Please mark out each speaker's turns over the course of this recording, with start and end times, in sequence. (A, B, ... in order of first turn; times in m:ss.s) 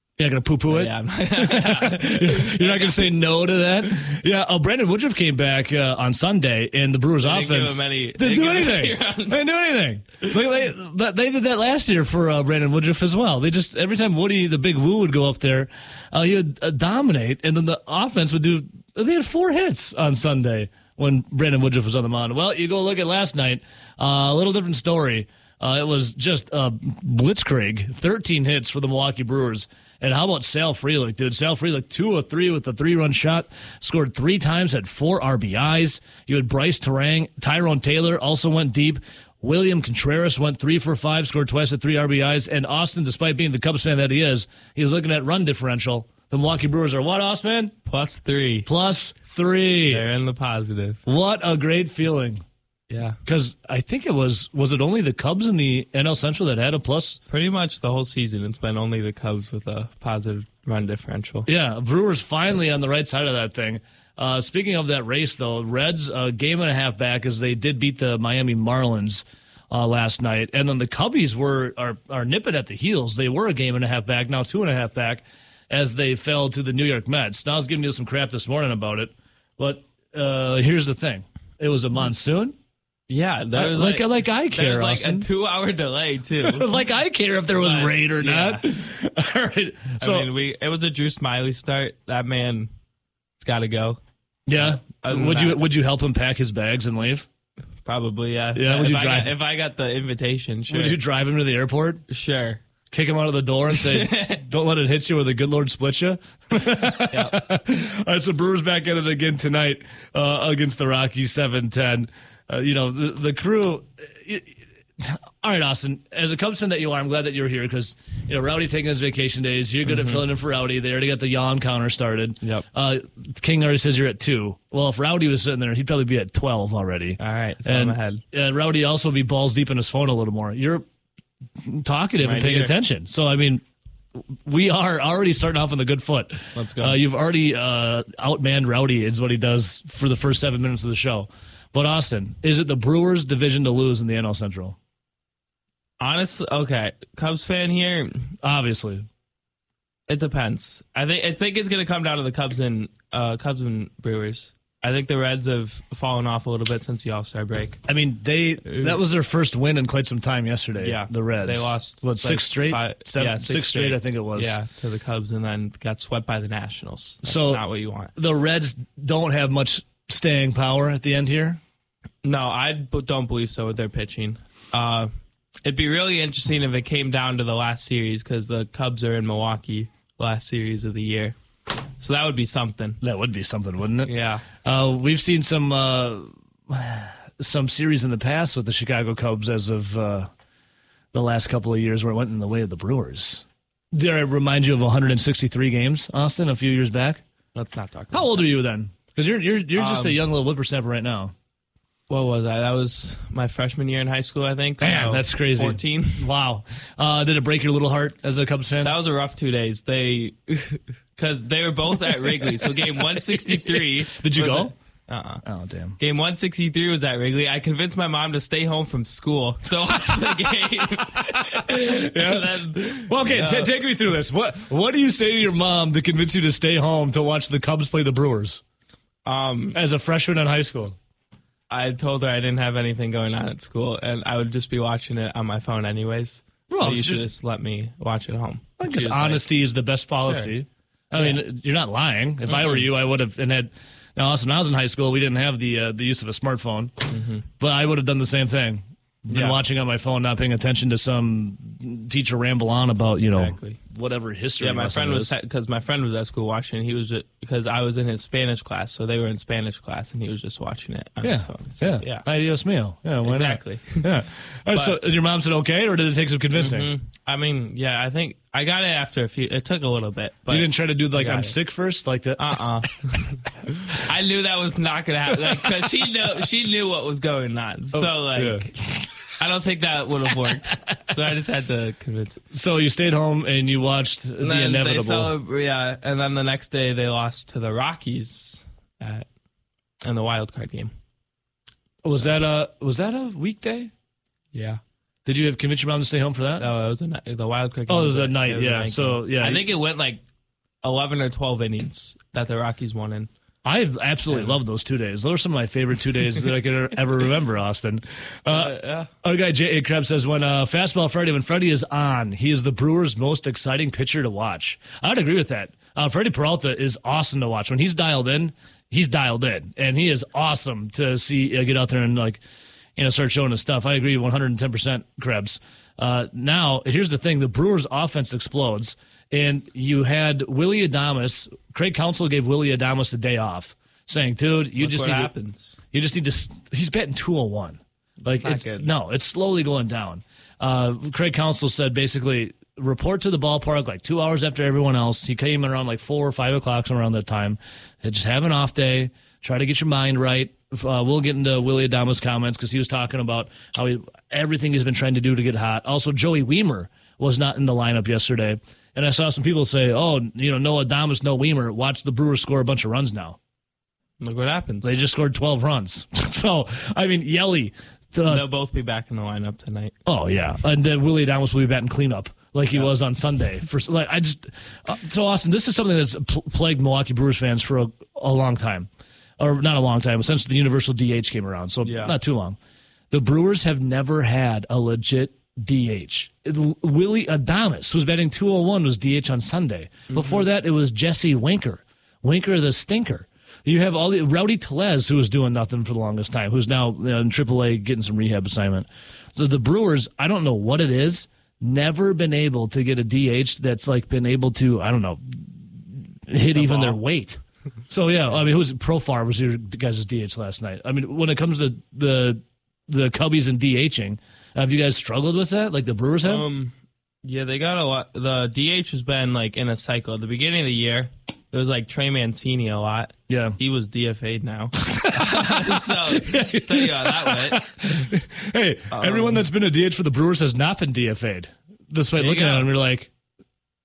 0:00.2-0:47.7 A
0:00.7-0:03.1 B
0:07.2-0:09.5 B
0:47.8-0:48.7 B
0:48.6-0:50.0 A
0:49.9-0:51.0 B
0:51.0-0:52.4 A
0:52.9-0:53.2 B
0:53.2-0:57.2 A
0:57.3-1:01.5 B
1:01.4-1:22.5 A
1:23.1-1:26.7 B
1:23.5-1:25.3 A
1:26.4-1:30.3 A
1:27.5-1:28.6 B
1:30.0-1:32.7 B
1:33.4-1:34.0 B
1:34.5-1:37.2 A
1:34.6-1:35.6 B
1:37.8-1:41.0 B
1:38.5-1:39.3 A
1:40.7-1:42.0 A
1:42.1-1:42.6 B
1:42.9-2:10.8 A
1:43.7-1:44.4 B
1:47.1-1:47.5 B
1:59.9-2:00.2 B
2:07.2-2:08.2 B
2:11.6-2:13.6 A
2:12.2-2:12.7 B
2:14.4-2:24.8 A
2:16.5-2:17.0 B
2:26.0-2:28.3 B
2:28.4-2:29.0 A
2:30.1-2:37.8 B
2:37.9-2:44.6 A
2:38.7-2:39.0 B
2:40.8-2:48.1 B
2:47.2-2:47.6 A
2:48.2-2:51.6 A
2:52.2-2:55.1 B
2:55.6-3:01.3 B
3:02.0-3:03.0 B
3:03.0-3:04.1 A
3:04.0-3:04.4 B
3:04.6-3:10.3 A
3:11.1-3:17.2 A
3:17.5-3:18.3 B
3:18.1-3:21.3 A
3:19.8-3:20.2 B
3:22.1-3:26.3 B
3:24.8-3:28.9 A
3:28.8-3:35.4 B
3:32.8-3:34.7 A
3:35.4-3:36.0 A
3:36.0-3:43.7 B
3:40.0-3:48.6 A
3:49.2-3:49.8 B
3:49.7-3:51.0 A
3:51.7-3:59.4 B
3:56.7-3:57.2 A
3:58.8-4:06.9 A
4:00.2-4:00.5 B
4:01.1-4:01.4 B
4:02.5-4:02.9 B
4:07.1-4:07.4 B
4:07.6-4:15.3 A
4:09.3-4:09.6 B
4:13.3-4:13.8 B
4:14.6-4:22.2 B
4:21.2-4:26.9 A
4:23.2-4:24.1 B
4:24.7-4:25.0 B
4:26.6-4:31.5 B
4:30.5-4:32.6 A
4:32.4-4:38.7 B
4:37.9-4:39.1 A
4:39.4-4:42.4 B
4:42.5-4:45.3 A
4:44.4-4:49.2 B
4:50.0-4:50.9 B
4:52.0-4:53.9 A
4:54.5-4:54.8 B
4:55.2-4:56.7 A
4:56.6-5:00.2 B
4:57.9-4:59.6 A
5:00.8-5:03.3 B
5:03.6-5:22.4 A
5:04.3-5:04.6 B
5:08.5-5:09.1 B
5:23.0-5:35.3 A
5:34.8-5:35.8 B
5:35.9-6:03.4 A
5:38.2-5:38.9 B
6:04.2-6:05.0 B
6:04.8-6:08.4 A
6:08.3-6:10.0 B
6:10.0-6:18.9 A
6:19.4-6:22.6 A
6:21.8-6:22.1 B
6:23.1-6:56.4 A
6:30.1-6:30.5 B
6:46.5-6:47.0 B
6:56.2-7:07.8 B
7:03.3-7:03.6 A
7:04.8-7:13.1 A
7:08.9-7:09.5 B
7:12.2-7:12.7 B